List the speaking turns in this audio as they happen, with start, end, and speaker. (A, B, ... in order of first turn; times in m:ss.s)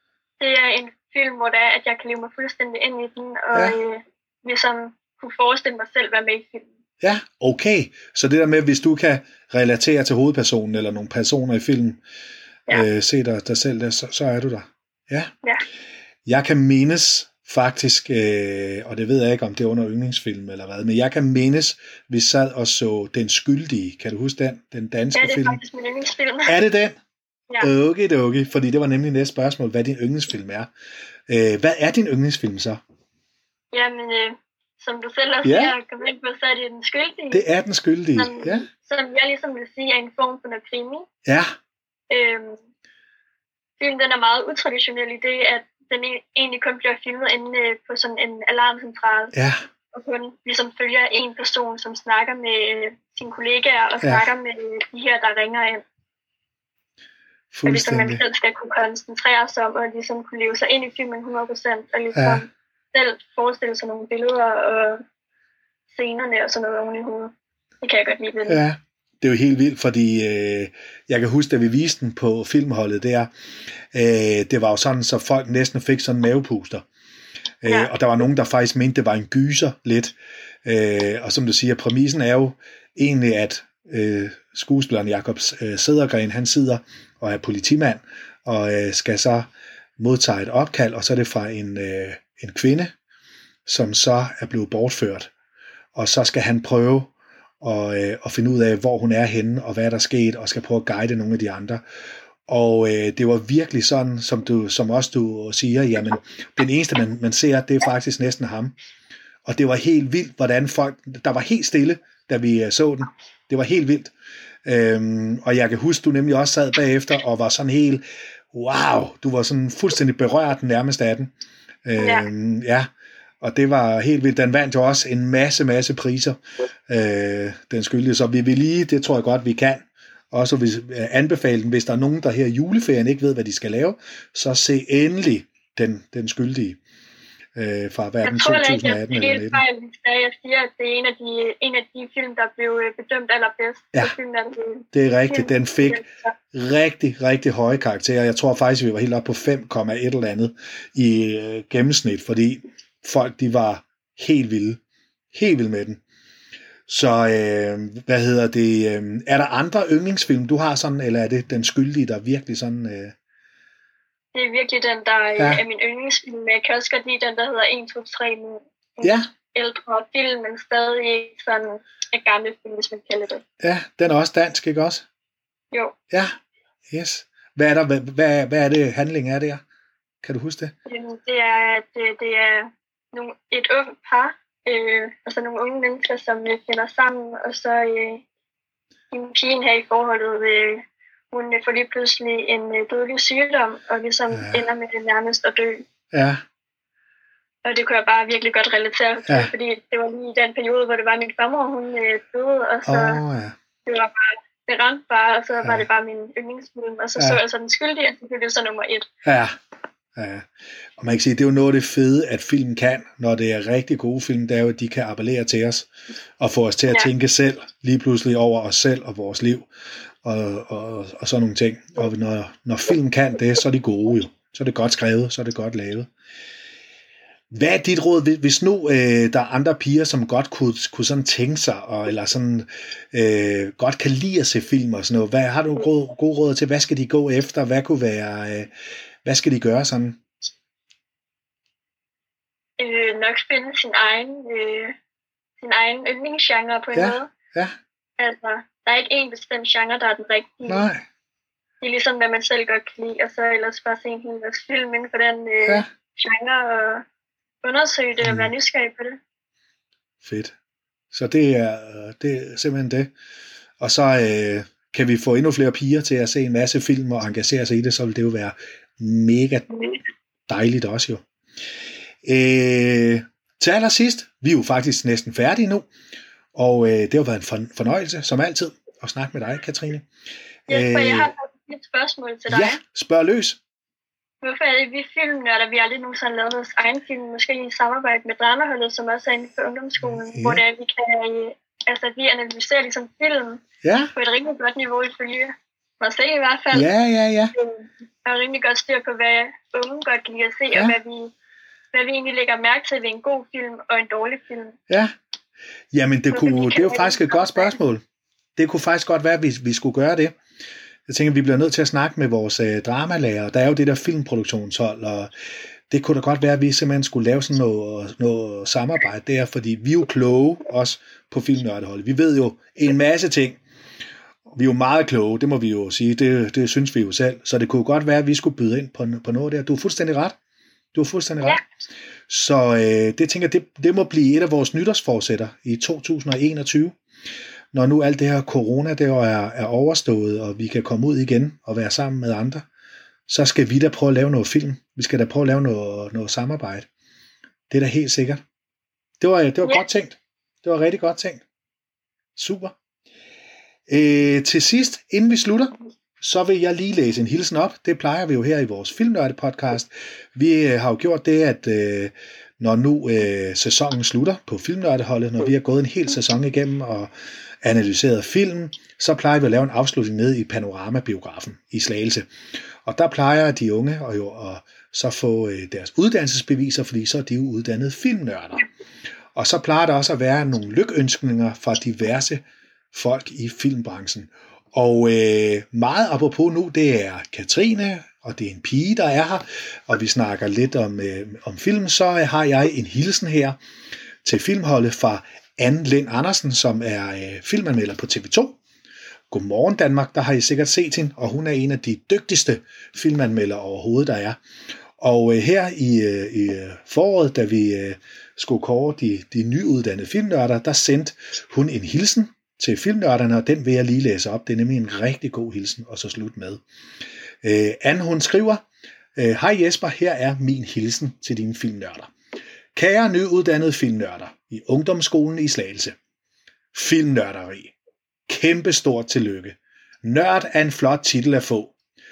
0:00.4-0:06.7 A
0:03.5-0:03.8 B
0:07.0-0:12.0 B
0:12.7-0:15.3 B
0:16.2-0:25.6 B
0:25.1-0:26.5 A
0:26.4-0:27.0 B
0:27.6-0:30.7 B
0:31.3-0:32.8 B
0:33.7-0:37.5 A
0:35.4-0:35.7 B
0:37.3-0:38.7 B
0:38.1-0:41.1 A
0:41.2-0:41.5 B
0:42.1-0:42.6 A
0:43.8-0:49.3 A
0:49.3-0:49.6 B
0:49.9-0:55.8 A
0:54.0-0:54.3 B
0:57.5-0:58.2 B
0:57.6-1:05.0 A
1:02.1-1:02.4 B
1:05.9-1:08.6 A
1:08.5-1:13.3 B
1:13.9-1:16.8 B
1:17.6-1:32.9 B
1:17.6-1:17.9 A
1:33.6-1:35.3 B
1:35.9-1:41.8 B
1:42.5-1:48.8 B
1:49.4-1:54.1 B
1:54.6-2:01.3 B
2:01.8-2:02.9 B
2:02.0-2:02.3 A
2:03.4-2:16.8 B
2:17.6-2:19.6 B
2:18.2-2:26.3 A
2:24.9-2:34.8 B
2:35.3-2:36.0 B
2:36.9-2:43.1 B
2:44.3-2:53.4 A
2:45.4-2:45.6 B
2:49.0-2:49.3 B
2:53.6-2:55.0 B
2:56.1-2:56.4 B
2:56.9-2:59.6 B
3:00.2-3:00.7 B
3:00.8-3:08.2 A
3:09.1-3:15.8 A
3:14.3-3:14.6 B
3:16.1-3:16.4 B
3:17.6-3:23.2 A
3:22.8-3:23.6 B
3:23.8-3:29.1 A
3:29.2-3:29.6 B
3:30.1-3:35.9 B
3:36.4-3:39.7 B
3:40.2-3:46.1 B
3:47.5-3:58.7 B
3:59.2-4:00.2 B
4:02.8-4:04.9 A
4:05.6-4:07.3 A
4:06.9-4:07.7 B
4:08.2-4:10.8 A
4:10.6-4:11.0 B
4:11.8-4:17.0 A
4:17.6-4:19.2 A
4:18.2-4:18.5 B
4:20.2-4:20.5 B
4:21.1-4:23.1 B
4:23.8-4:30.0 B
4:30.5-4:31.2 B
4:32.2-4:35.9 B
4:36.5-4:40.0 B
4:40.7-4:41.3 B
4:40.7-4:42.8 A
4:42.5-4:43.6 B
4:44.4-4:53.6 A
4:50.0-4:50.6 B
4:53.8-4:54.1 B
4:54.1-4:56.9 A
4:56.7-4:57.5 B
4:57.5-5:01.3 A
5:00.7-5:01.0 B
5:01.9-5:04.8 A
5:05.9-5:08.0 B
5:06.3-5:07.7 A
5:08.6-5:10.3 B
5:11.1-5:15.3 B
5:15.9-5:23.6 B
5:24.5-5:30.4 B
5:30.9-5:31.6 B
5:32.3-5:37.0 B
5:37.7-5:42.6 B
5:43.3-5:46.9 B
5:47.7-5:48.4 B
5:49.2-5:51.4 B
5:52.4-5:52.7 B
5:53.9-6:12.3 B
6:12.8-6:18.6 B
6:19.4-6:33.6 B
6:34.2-6:38.6 B
6:39.3-6:44.4 B
6:45.0-6:56.6 B
6:57.4-6:58.6 B
6:59.2-7:02.1 B
7:02.7-7:06.0 B
7:06.7-7:07.7 B
7:08.3-7:11.7 B